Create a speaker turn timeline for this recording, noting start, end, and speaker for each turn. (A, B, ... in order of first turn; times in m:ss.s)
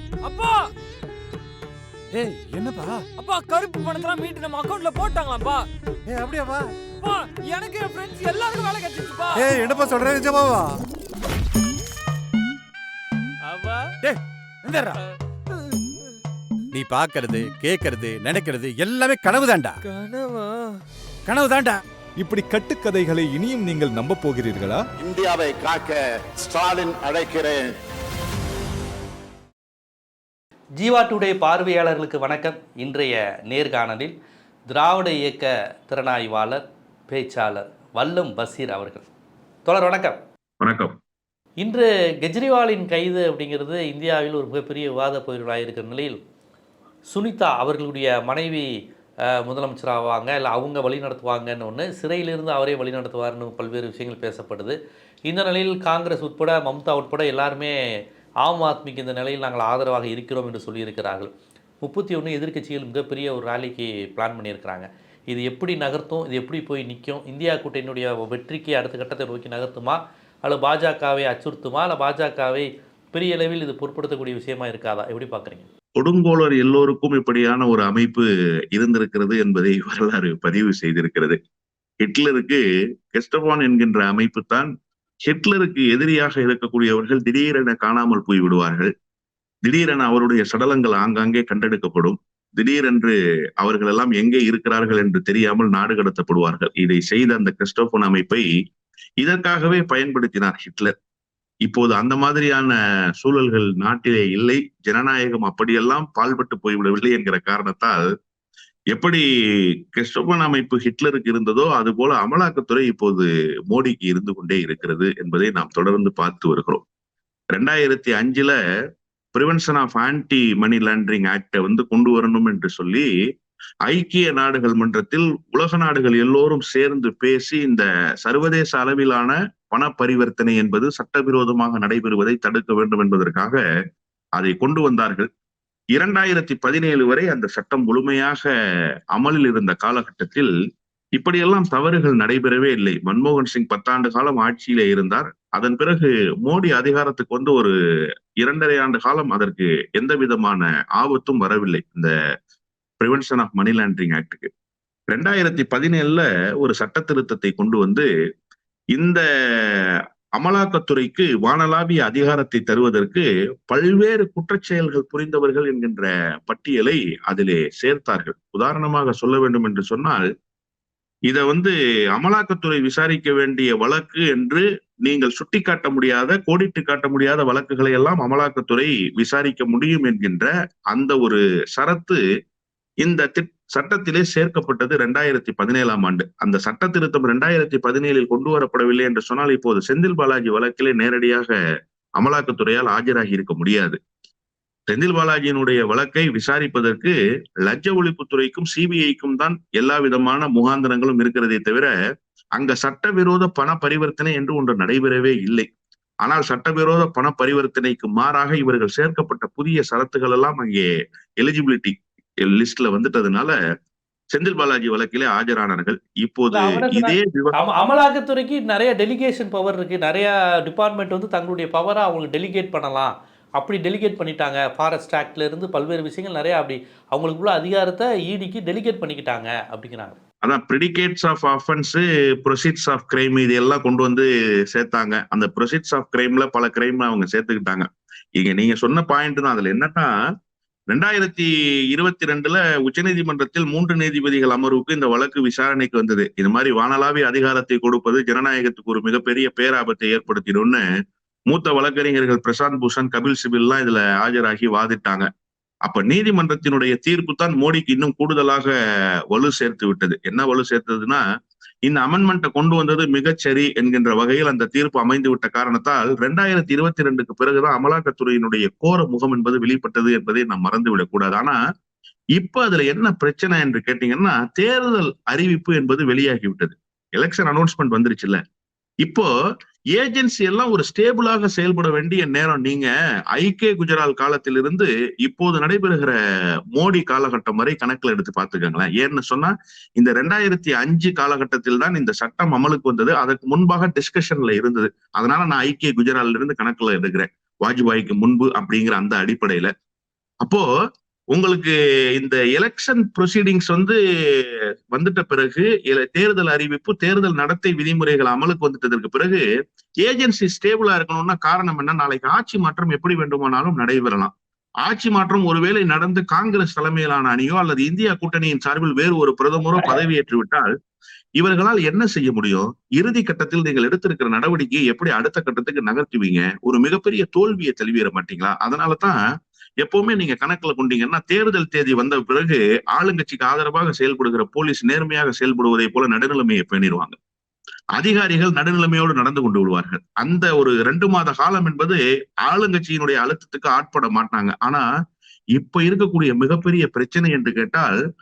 0:00.2-0:00.7 A
0:02.1-0:03.0 B
0:03.2-0:05.7 A
0:06.1-0:06.7 B
0:07.0-0:09.7 A
0:09.4-0:10.8 B
0:13.5-0:13.8 A
0:14.0-0:15.0 B
0:16.7-0:19.8 B
0:21.3-0:21.8 B
0:22.2-0:24.8 C
0:25.0-0:27.7 D
0:30.8-0:34.1 E
0:34.7-0:39.1 E
0:39.6-0:40.2 E
0:40.6-0:40.9 F
0:41.6-0:46.2 E
0:47.1-0:48.6 E
0:49.4-0:57.7 E
0:58.4-1:01.3 E
1:01.8-1:15.7 E
1:16.0-1:21.4 F
1:22.0-1:22.6 F
1:23.1-1:24.7 F
1:25.2-1:28.9 F
1:29.6-1:38.4 F
1:39.2-1:40.9 F
1:41.6-1:48.0 F
1:48.9-1:49.2 F
1:49.9-1:56.8 F
1:57.5-1:58.5 F
1:59.3-2:03.0 F
2:03.9-2:13.6 F
2:14.4-2:15.3 F
2:16.0-2:18.5 F
2:19.1-2:20.5 F
2:21.2-2:27.7 F
2:28.4-2:32.1 F
2:33.0-2:34.5 F
2:35.1-2:38.0 F
2:38.9-2:50.2 F
2:51.3-3:02.2 F
3:03.0-3:11.5 F
3:12.2-3:14.0 F
3:14.9-3:21.9 F
3:22.6-3:25.6 F
3:26.2-3:30.9 F
3:31.4-3:33.5 F
3:34.3-3:37.6 F
3:36.5-3:50.2 E
3:50.4-3:57.8 F
3:58.4-4:00.1 F
4:00.9-4:10.8 F
4:11.5-4:15.2 F
4:15.8-4:18.7 F
4:19.3-4:21.2 F
4:21.8-4:31.6 F
4:32.4-4:38.4 F
4:39.0-4:39.3 F
4:39.9-4:46.1 F
4:46.7-4:59.7 F
5:01.3-5:04.4 F
5:04.9-5:09.4 F
5:10.0-5:14.3 F
5:14.8-5:20.7 F
5:21.4-5:29.2 F
5:29.8-5:37.2 F
5:38.0-5:44.8 F
5:45.6-5:48.0 F